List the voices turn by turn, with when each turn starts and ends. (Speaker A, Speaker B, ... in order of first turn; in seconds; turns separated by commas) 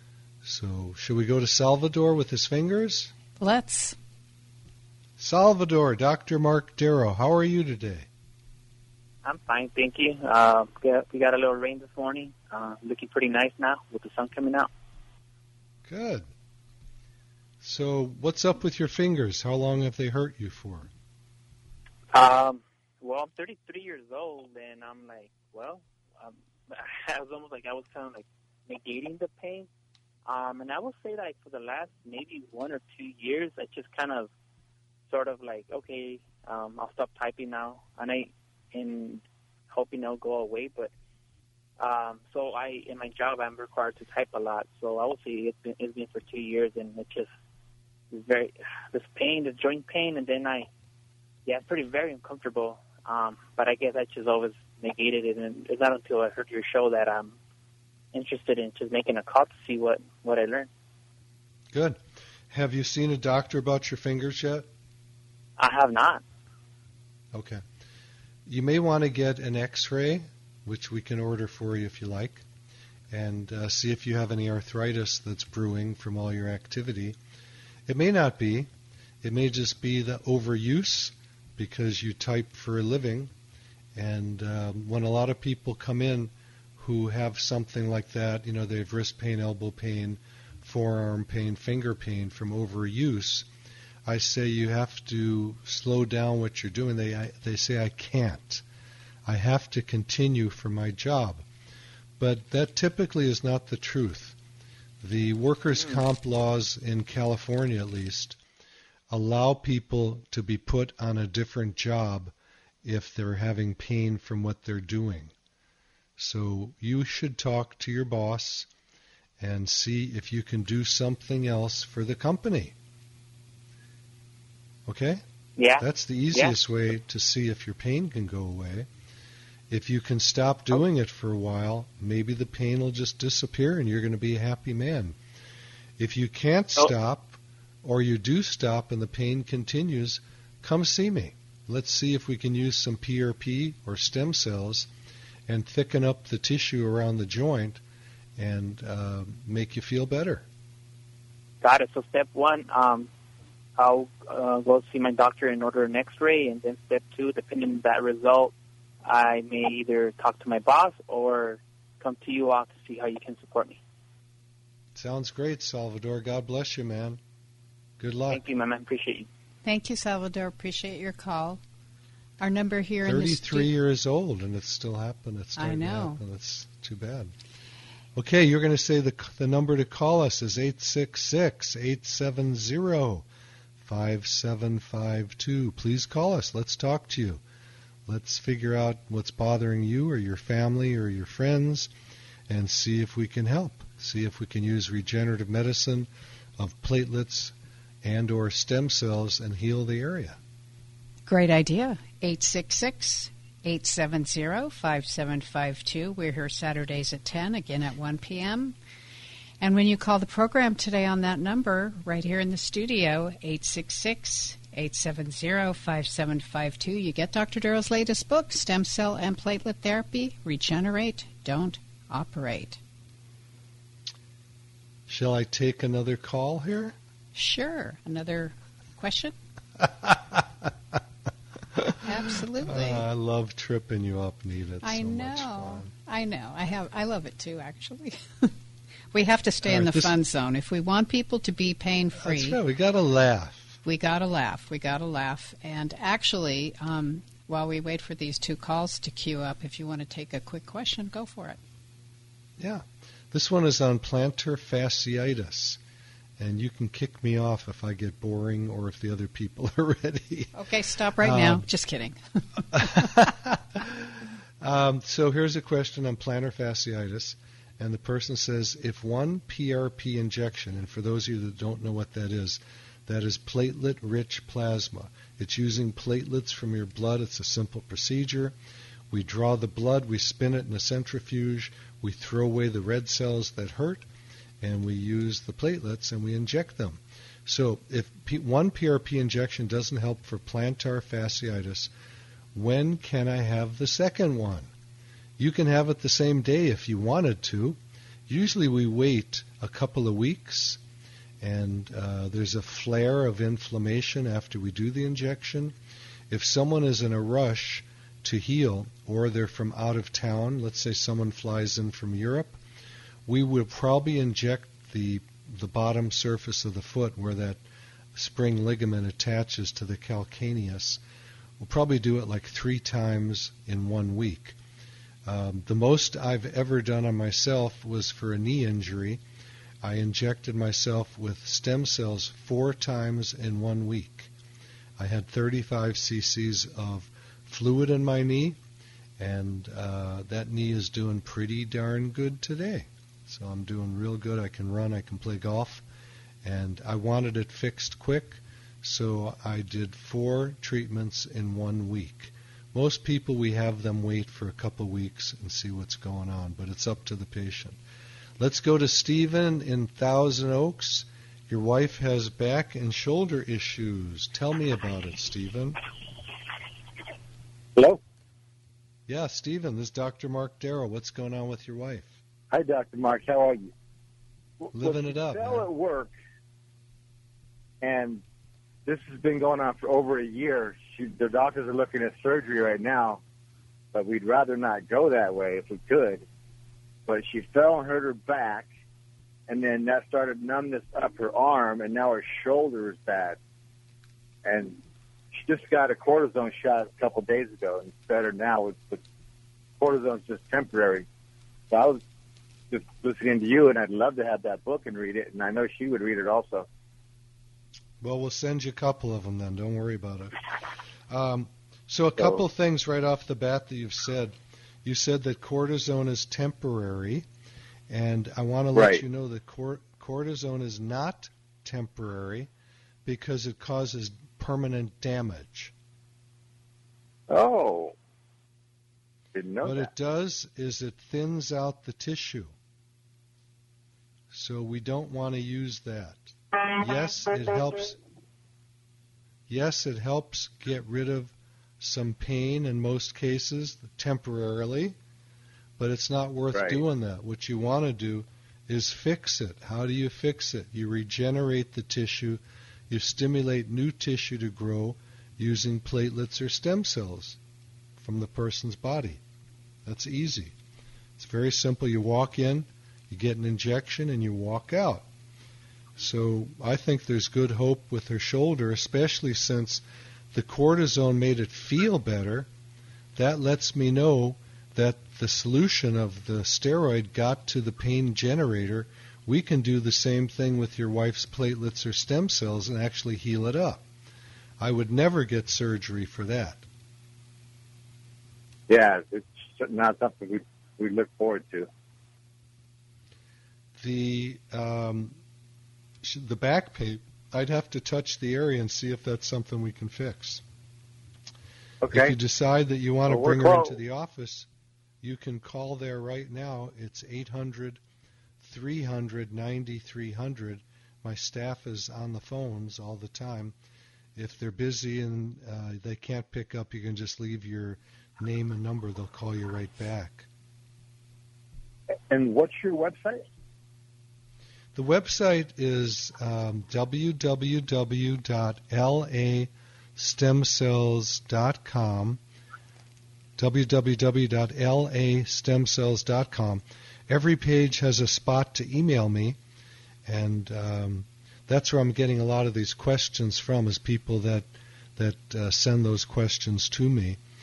Speaker A: 0.4-3.1, Speaker B: 3.4-4.0, Speaker A: 5.2-8.1, Speaker C: 9.2-14.7, Speaker A: 15.8-16.3, Speaker A: 17.6-20.9, Speaker C: 22.1-29.7, Speaker C: 30.3-34.3, Speaker C: 35.1-40.9, Speaker C: 41.8-47.3, Speaker C: 48.1-50.7, Speaker C: 51.5-57.4, Speaker C: 58.1-60.7, Speaker A: 61.7-62.0, Speaker A: 62.5-64.7, Speaker C: 65.6-66.2, Speaker A: 67.3-67.6, Speaker A: 68.5-72.5, Speaker A: 73.1-77.2, Speaker A: 77.9-78.7, Speaker A: 79.2-83.3, Speaker A: 84.0-93.5, Speaker A: 94.0-98.6, Speaker A: 99.2-101.5, Speaker A: 102.2-104.4, Speaker A: 105.0-108.4, Speaker A: 109.1-115.3, Speaker A: 116.2-118.7, Speaker A: 119.4-122.8, Speaker A: 124.9-125.2, Speaker C: 125.6-126.6, Speaker A: 125.8-128.9, Speaker A: 129.7-135.2, Speaker A: 136.0-144.9, Speaker A: 145.5-147.8, Speaker A: 148.4-150.5, Speaker C: 151.6-153.1, Speaker C: 153.8-158.5, Speaker C: 159.1-163.8, Speaker A: 164.9-167.2, Speaker A: 168.0-168.4, Speaker C: 168.3-169.3, Speaker B: 169.7-171.6, Speaker B: 172.4-173.7, Speaker A: 173.0-177.3, Speaker B: 175.6-176.2, Speaker A: 178.2-183.3, Speaker A: 183.8-187.4, Speaker A: 188.1-191.9, Speaker A: 192.5-200.4, Speaker B: 201.3-208.8, Speaker B: 209.6-222.8, Speaker A: 225.1-227.0, Speaker B: 227.3-229.3, Speaker A: 229.8-230.7, Speaker B: 232.0-233.1, Speaker A: 232.6-235.9, Speaker B: 234.8-238.5, Speaker B: 239.1-242.6, Speaker A: 239.6-240.1, Speaker A: 242.2-243.8, Speaker B: 243.8-251.6, Speaker A: 252.6-255.8, Speaker A: 256.4-260.5, Speaker B: 260.5-262.2, Speaker A: 261.2-261.6, Speaker A: 262.7-278.5, Speaker B: 262.8-263.1, Speaker A: 279.1-284.1, Speaker A: 284.6-291.9, Speaker A: 292.5-294.7, Speaker A: 295.4-300.8, Speaker A: 301.4-305.8, Speaker A: 306.3-312.6, Speaker A: 313.3-317.6, Speaker A: 318.1-321.0, Speaker A: 321.6-324.6, Speaker A: 325.2-329.2, Speaker A: 329.8-334.3, Speaker A: 335.0-338.6, Speaker A: 339.2-345.8, Speaker A: 346.4-357.8, Speaker A: 358.4-365.8, Speaker D: 367.8-368.0, Speaker A: 369.1-372.2, Speaker D: 372.5-373.7, Speaker D: 374.6-376.1, Speaker A: 374.7-375.7, Speaker D: 377.8-378.2, Speaker D: 378.9-383.2, Speaker D: 383.9-386.3, Speaker D: 387.1-388.7, Speaker D: 389.5-393.4, Speaker D: 394.4-394.8, Speaker D: 395.4-399.0, Speaker D: 399.8-401.1, Speaker D: 401.7-402.0, Speaker D: 402.7-406.7, Speaker A: 408.0-410.4, Speaker A: 411.1-417.3, Speaker A: 417.9-422.5, Speaker D: 418.7-419.0, Speaker A: 423.1-425.7, Speaker D: 427.3-428.0, Speaker D: 429.3-429.9, Speaker A: 429.6-432.5, Speaker A: 434.3-438.0, Speaker A: 439.5-445.0, Speaker A: 445.8-457.4, Speaker D: 446.5-446.8, Speaker A: 458.0-459.2, Speaker A: 459.9-460.5, Speaker A: 461.2-465.1, Speaker A: 466.0-472.5, Speaker A: 473.2-483.8, Speaker A: 484.6-486.6, Speaker D: 488.7-491.7, Speaker A: 493.8-495.2, Speaker A: 496.0-500.4, Speaker D: 501.8-502.2, Speaker A: 501.9-504.5, Speaker D: 503.1-503.8, Speaker A: 505.0-507.8, Speaker A: 508.4-513.5, Speaker A: 514.2-520.3, Speaker D: 522.1-523.2, Speaker A: 524.8-532.2, Speaker A: 533.4-539.4, Speaker A: 540.1-547.2